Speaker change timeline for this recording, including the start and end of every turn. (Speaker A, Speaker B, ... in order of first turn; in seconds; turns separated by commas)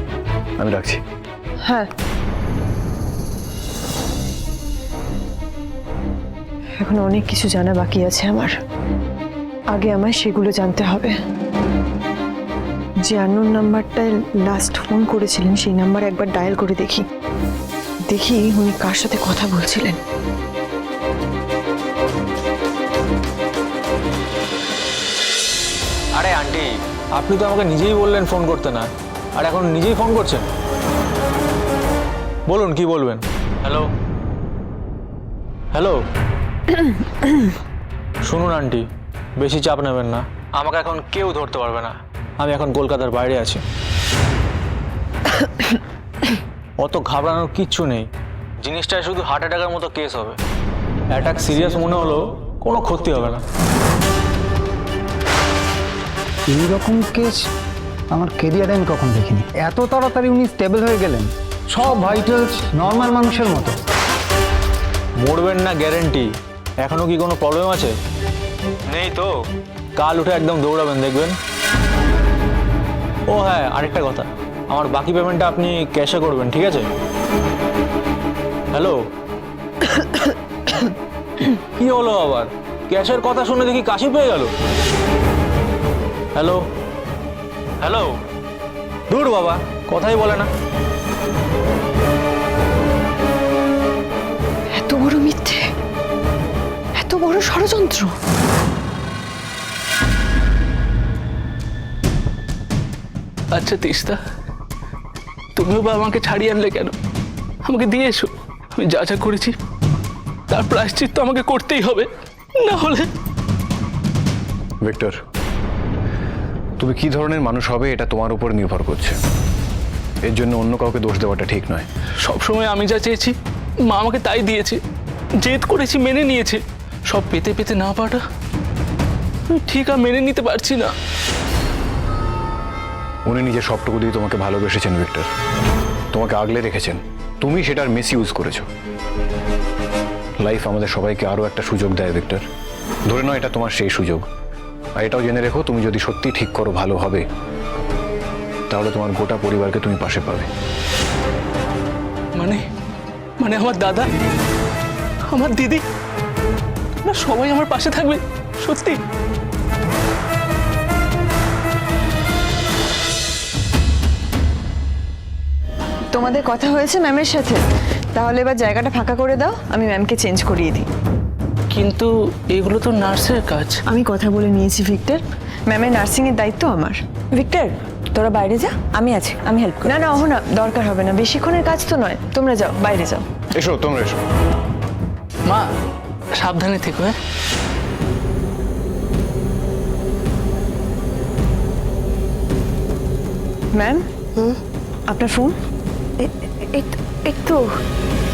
Speaker A: 0.6-1.0, Speaker B: 6.8-8.6, Speaker B: 9.7-11.1, Speaker B: 13.0-17.1, Speaker B: 18.1-20.0, Speaker C: 26.1-30.5, Speaker C: 32.5-33.9, Speaker C: 35.7-36.0, Speaker C: 38.2-38.9, Speaker C: 39.4-43.6, Speaker C: 46.8-48.1, Speaker C: 48.6-50.4, Speaker C: 51.1-53.4, Speaker D: 56.5-57.4, Speaker D: 58.1-63.8, Speaker C: 65.2-66.3, Speaker C: 66.8-67.9, Speaker C: 68.9-69.3, Speaker C: 70.0-71.4, Speaker C: 73.3-76.9, Speaker C: 78.7-79.0, Speaker C: 81.4-84.5, Speaker C: 86.3-86.6, Speaker C: 87.8-88.1, Speaker C: 89.1-90.5, Speaker B: 94.7-95.6, Speaker B: 96.9-98.1, Speaker E: 103.5-104.2, Speaker E: 105.5-106.9, Speaker E: 107.6-109.5, Speaker E: 110.5-113.1, Speaker A: 114.8-115.2, Speaker A: 116.8-119.2, Speaker A: 120.2-121.9, Speaker E: 122.2-123.3, Speaker E: 123.9-124.8, Speaker E: 125.4-128.2, Speaker E: 129.5-130.9, Speaker A: 133.2-135.3, Speaker A: 136.1-138.7, Speaker A: 140.4-142.4, Speaker A: 143.1-144.2, Speaker A: 145.0-147.2, Speaker A: 148.7-150.5, Speaker E: 152.3-152.6, Speaker E: 153.4-154.1, Speaker E: 155.3-155.8, Speaker E: 157.0-159.0, Speaker B: 166.1-167.6, Speaker B: 168.1-170.9, Speaker E: 171.7-173.8, Speaker B: 173.9-183.2, Speaker A: 183.5-184.2, Speaker E: 186.3-187.2, Speaker B: 193.7-195.5, Speaker B: 196.2-197.7